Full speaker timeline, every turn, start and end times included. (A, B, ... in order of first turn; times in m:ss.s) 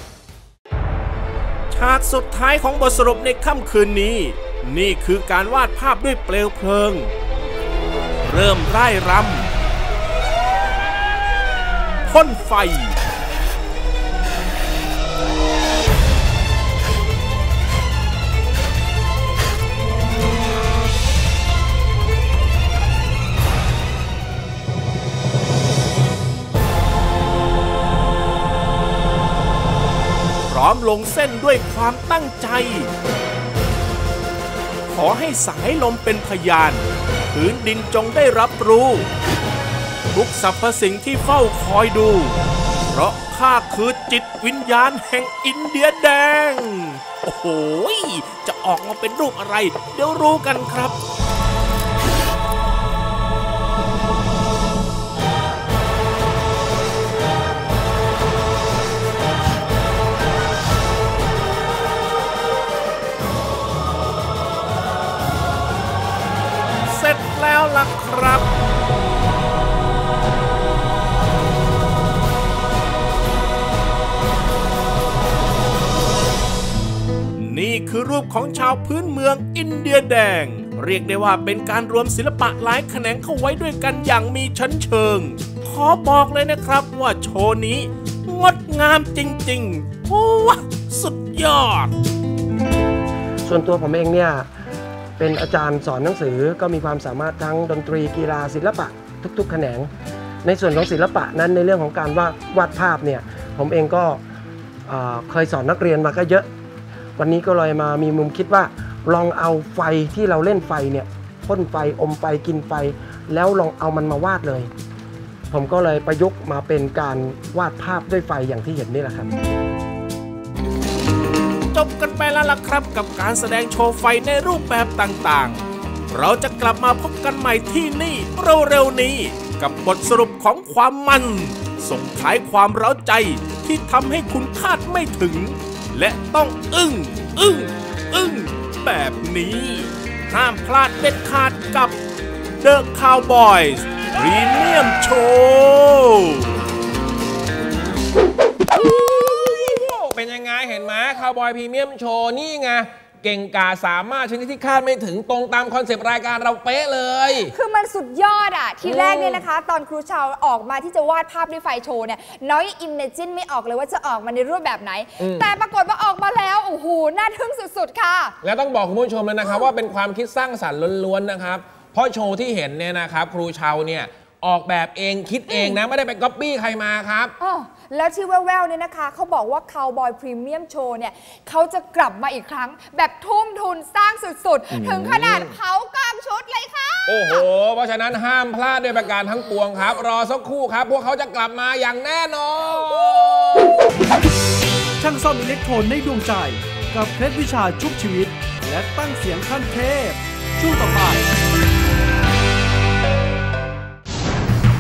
0:01.7-0:07.1 A
0:08.2-0:09.5 A
0:12.1-0:13.0 A
0:30.5-0:32.9 A
0:34.9-0:39.1 A
0:40.1-0:51.0 A
1:06.9-1:08.5 A
1:17.4-1:31.9 A
1:33.4-1:34.5 B
1:35.2-1:39.9 B
1:40.4-1:44.2 B
1:44.9-1:46.5 B
1:47.2-1:54.7 B
1:55.5-1:59.3 B
2:01.7-2:22.0 A
2:22.6-2:26.6 A
2:28.7-2:37.5 C
2:37.4-2:48.4 D
2:38.8-2:39.5 C
2:45.2-2:45.5 C
2:48.4-2:57.3 C
2:55.5-2:55.8 D
2:57.4-3:07.5 D
3:04.7-3:05.5 C
3:07.1-3:13.8 C
3:15.0-3:21.3 E